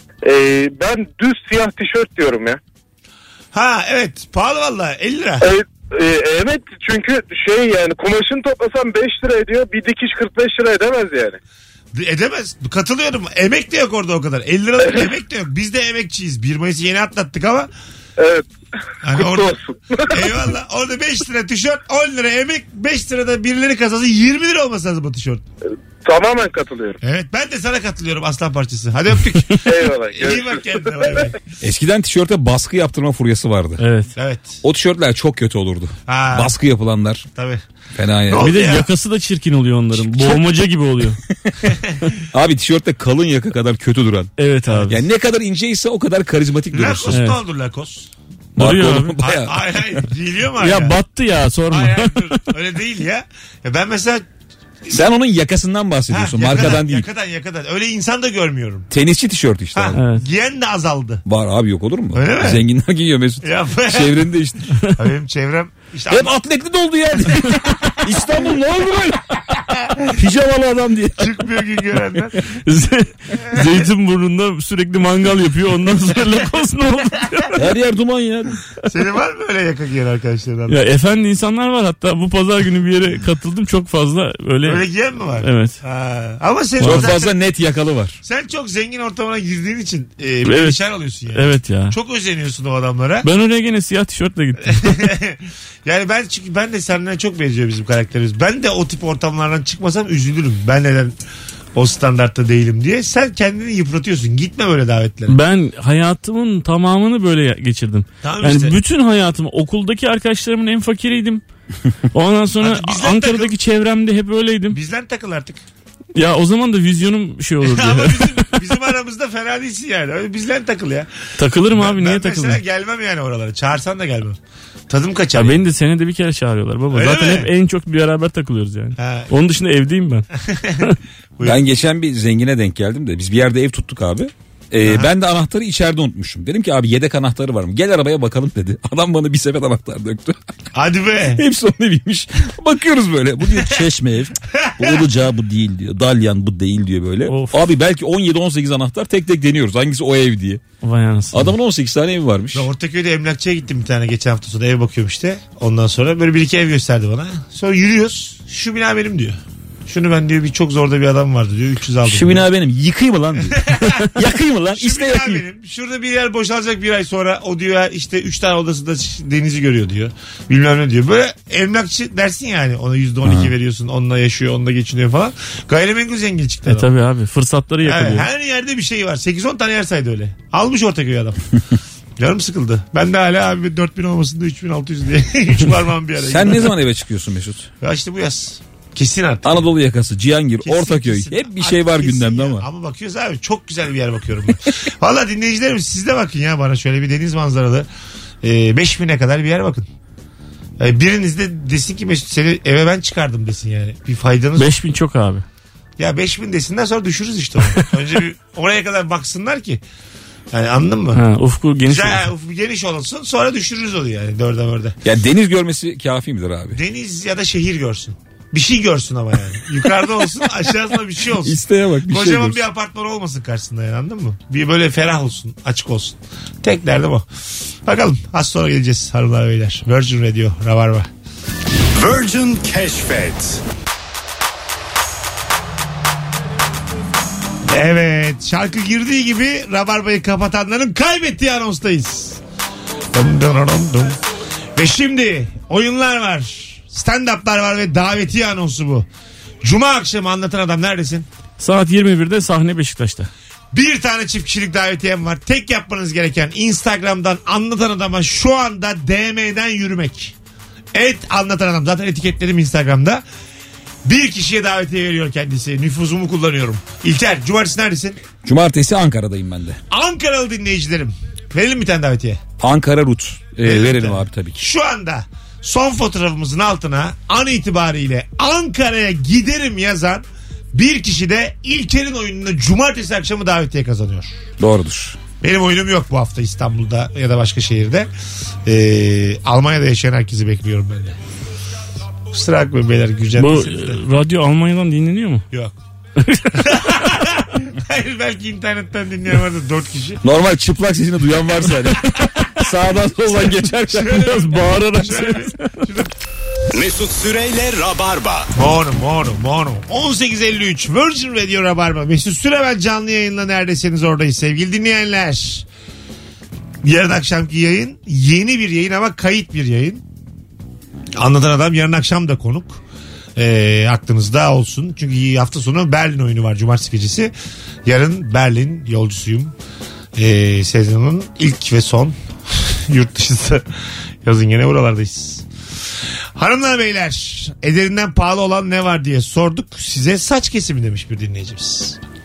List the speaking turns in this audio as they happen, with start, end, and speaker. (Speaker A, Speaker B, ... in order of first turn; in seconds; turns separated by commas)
Speaker A: 0.2-2.6, Speaker B: 3.5-5.5, Speaker A: 5.4-11.4, Speaker B: 11.9-17.7, Speaker A: 18.2-18.5, Speaker B: 19.0-19.6, Speaker A: 19.1-20.5, Speaker B: 20.1-25.4, Speaker A: 26.0-27.0, Speaker B: 27.0-31.4, Speaker A: 29.6-31.2, Speaker C: 31.6-33.8, Speaker D: 33.8-34.1, Speaker B: 34.2-34.6, Speaker C: 34.6-37.3, Speaker B: 36.1-36.5, Speaker B: 37.4-37.6, Speaker C: 38.0-38.6, Speaker B: 38.3-38.9, Speaker D: 38.4-41.2, Speaker C: 41.3-41.7, Speaker B: 41.7-42.1, Speaker C: 42.3-44.3, Speaker D: 44.4-45.0, Speaker C: 44.9-47.2, Speaker B: 46.7-48.1, Speaker D: 47.1-47.4, Speaker D: 48.6-49.1, Speaker C: 48.6-50.0, Speaker B: 49.2-51.0, Speaker D: 50.6-52.4, Speaker B: 51.7-54.2, Speaker C: 54.9-57.1, Speaker B: 56.1-58.9, Speaker C: 58.9-60.0, Speaker B: 59.7-61.2, Speaker D: 60.0-60.2, Speaker C: 61.3-64.8, Speaker B: 62.1-62.6, Speaker B: 63.4-64.3, Speaker B: 64.9-66.4, Speaker C: 66.1-71.4, Speaker B: 67.8-68.1, Speaker B: 71.2-72.6, Speaker D: 72.7-77.6, Speaker B: 73.4-73.7, Speaker C: 77.6-78.6, Speaker B: 78.9-80.8, Speaker D: 80.7-84.8, Speaker B: 84.7-87.4, Speaker D: 85.4-85.8, Speaker C: 86.8-88.2, Speaker D: 86.8-87.1, Speaker B: 88.2-93.3, Speaker D: 90.5-90.8, Speaker D: 91.3-92.0, Speaker D: 93.2-95.1, Speaker B: 94.7-101.2, Speaker B: 101.8-105.4, Speaker D: 105.3-111.4, Speaker B: 108.2-108.8, Speaker D: 112.1-114.8, Speaker B: 112.6-113.5, Speaker B: 114.7-115.6, Speaker D: 116.2-118.5, Speaker B: 117.6-124.4, Speaker D: 121.4-122.6, Speaker B: 124.9-125.6, Speaker D: 125.3-130.3, Speaker B: 126.9-127.5, Speaker B: 129.0-129.3, Speaker B: 130.4-131.6, Speaker C: 131.4-140.4, Speaker B: 134.8-135.1, Speaker B: 140.7-141.4, Speaker C: 141.3-150.6, Speaker B: 144.5-145.0, Speaker D: 147.3-147.6, Speaker D: 150.8-151.5, Speaker C: 151.3-152.7, Speaker B: 152.5-162.5, Speaker C: 162.1-165.4, Speaker B: 163.5-164.1, Speaker B: 164.7-176.9, Speaker C: 173.2-173.5, Speaker D: 176.7-178.3, Speaker B: 177.8-181.4, Speaker B: 182.2-186.8, Speaker C: 186.2-187.7, Speaker B: 187.8-189.7, Speaker C: 189.4-192.7, Speaker B: 190.6-197.9, Speaker B: 198.4-199.8, Speaker B: 200.8-204.7, Speaker D: 204.6-205.4, Speaker B: 206.0-209.8, Speaker B: 210.5-211.2, Speaker D: 211.1-212.2, Speaker B: 211.9-215.0, Speaker C: 215.0-216.8, Speaker B: 216.8-227.3, Speaker C: 221.4-222.6, Speaker B: 227.9-231.1, Speaker E: 232.0-233.6, Speaker B: 237.7-242.4, Speaker B: 243.1-244.2, Speaker B: 244.8-249.1, Speaker B: 249.6-251.3, Speaker D: 251.6-253.3, Speaker B: 253.7-260.3, Speaker B: 260.9-263.2, Speaker B: 264.1-268.2, Speaker C: 268.4-269.8, Speaker B: 269.9-272.4, Speaker C: 272.6-274.6, Speaker B: 273.6-280.2, Speaker B: 280.7-284.3, Speaker C: 284.6-285.2, Speaker B: 285.4-288.1, Speaker B: 288.7-291.2, Speaker B: 292.3-294.0, Speaker D: 293.4-295.4, Speaker D: 296.2-296.9, Speaker B: 296.6-300.2, Speaker C: 300.2-304.3, Speaker B: 303.9-306.1, Speaker D: 304.1-305.8, Speaker E: 306.7-308.5, Speaker B: 308.6-315.7, Speaker B: 316.8-320.0, Speaker B: 321.2-322.8, Speaker B: 323.4-327.3, Speaker B: 327.9-329.5, Speaker B: 330.2-333.6, Speaker B: 334.2-335.4, Speaker B: 336.4-342.0